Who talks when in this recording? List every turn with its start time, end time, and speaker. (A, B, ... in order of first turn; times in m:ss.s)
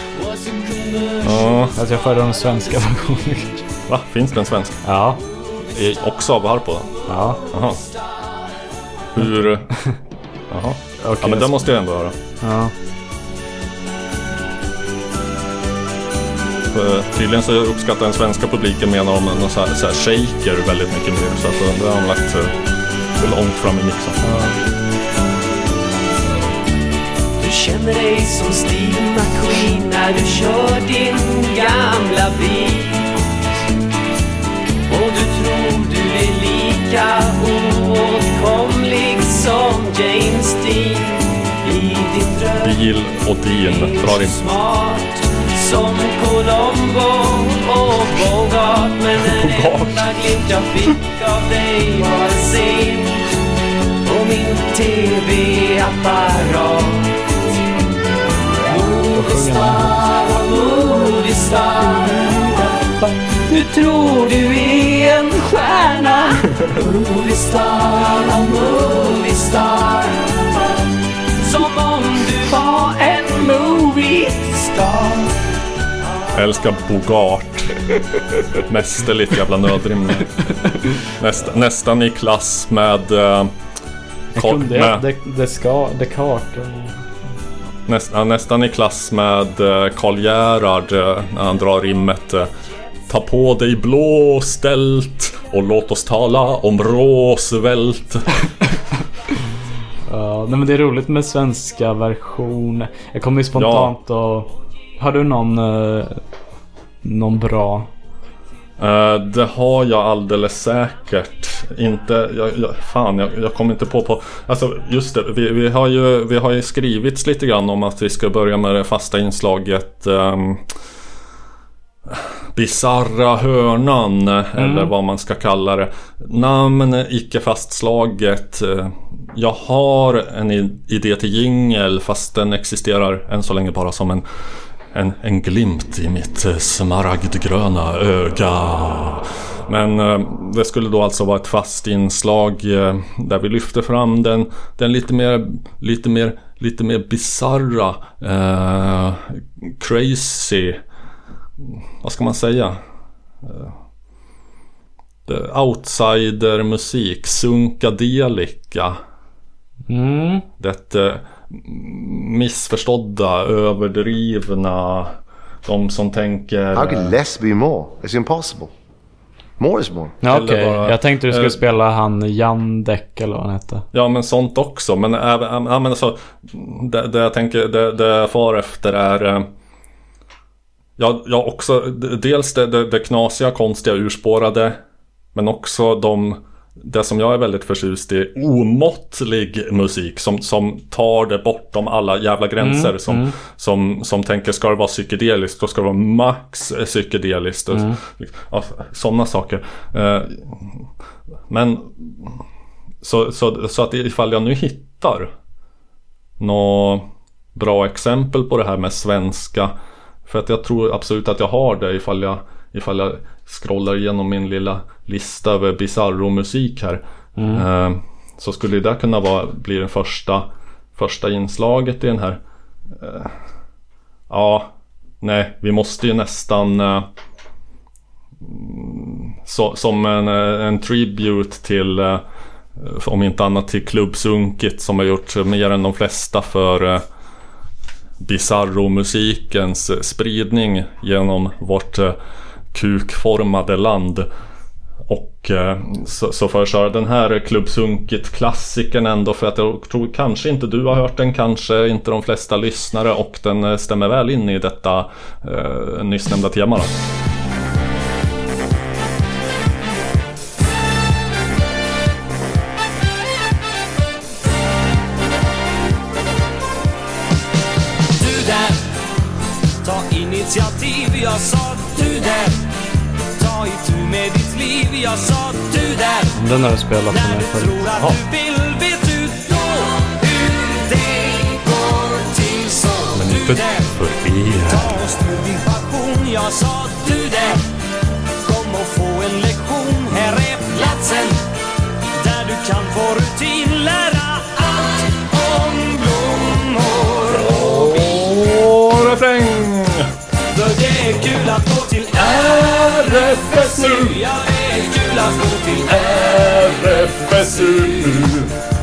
0:00.3-0:01.2 A
0:01.2-0:01.8 B
0:01.8-0:03.6 C
0:03.9-0:04.8 B
0:04.8-0:05.2 C
0:05.7-0:06.9 B
0:07.1-0:07.4 C
0:07.5-0:07.8 B
0:09.2-0:09.8 B
0:09.7-0:10.0 C
0:10.5-0:12.2 B
0:11.0-0:11.7 C
0:12.4-0:12.7 C
0:16.7-0:22.6 B
0:23.2-0:24.4 B
0:24.2-0:24.6 C
0:27.4-0:32.9 A
0:34.9-0:36.0 A
0:36.5-0:40.9 A
0:41.7-0:42.0 A
0:42.6-0:44.4 B
0:44.2-0:45.1 A
0:45.6-0:49.4 A
0:49.2-0:50.1 B
0:50.2-0:53.1 A
0:54.1-0:57.1 A
0:58.7-1:02.9 A
0:59.1-1:00.0 C
1:03.5-1:06.2 A
1:06.8-1:10.5 A
1:11.4-1:15.3 A
1:16.3-1:17.8 B
1:18.7-1:23.5 B
1:20.5-1:21.0 C
1:24.4-1:25.0 B
1:24.4-1:27.0 C
1:27.9-1:32.5 B
1:33.1-1:38.3 B
1:40.1-1:46.2 C
1:43.5-1:43.9 B
1:47.0-1:47.9 C
1:48.8-2:00.7 B
2:02.1-2:30.8 B
2:04.6-2:04.9 C
2:31.6-2:32.8 B
2:33.4-2:33.8 B
2:35.3-2:39.0 B
2:39.9-2:40.5 C
2:40.6-2:47.2 B
2:46.8-2:48.7 D
2:49.6-2:50.2 D
2:50.2-2:53.9 C
2:50.2-2:51.6 B
2:53.9-2:59.5 B
3:01.0-3:04.8 B
3:05.3-3:20.9 B
3:12.6-3:13.4 C
3:17.7-3:18.0 C
3:21.5-3:22.4 B
3:23.0-3:25.3 B
3:26.4-3:29.7 B
3:30.3-3:42.4 B
3:37.4-3:37.6 C
3:42.9-3:43.4 B
3:44.3-3:47.1 B
3:48.4-3:52.2 B
3:52.8-3:57.0 B
3:58.2-4:02.2 B
4:02.7-4:04.3 B
4:05.1-4:17.0 B
4:28.2-4:28.9 E
4:29.8-4:32.6 E
4:33.4-4:36.4 E
4:36.4-4:37.8 C
4:37.1-4:44.0 E
4:43.1-4:45.0 B
4:44.6-4:47.6 E
4:48.4-4:51.4 E
4:52.2-4:58.3 E
4:57.3-5:00.1 B
5:00.5-5:08.3 E
5:02.6-5:04.2 B
5:06.2-5:08.5 B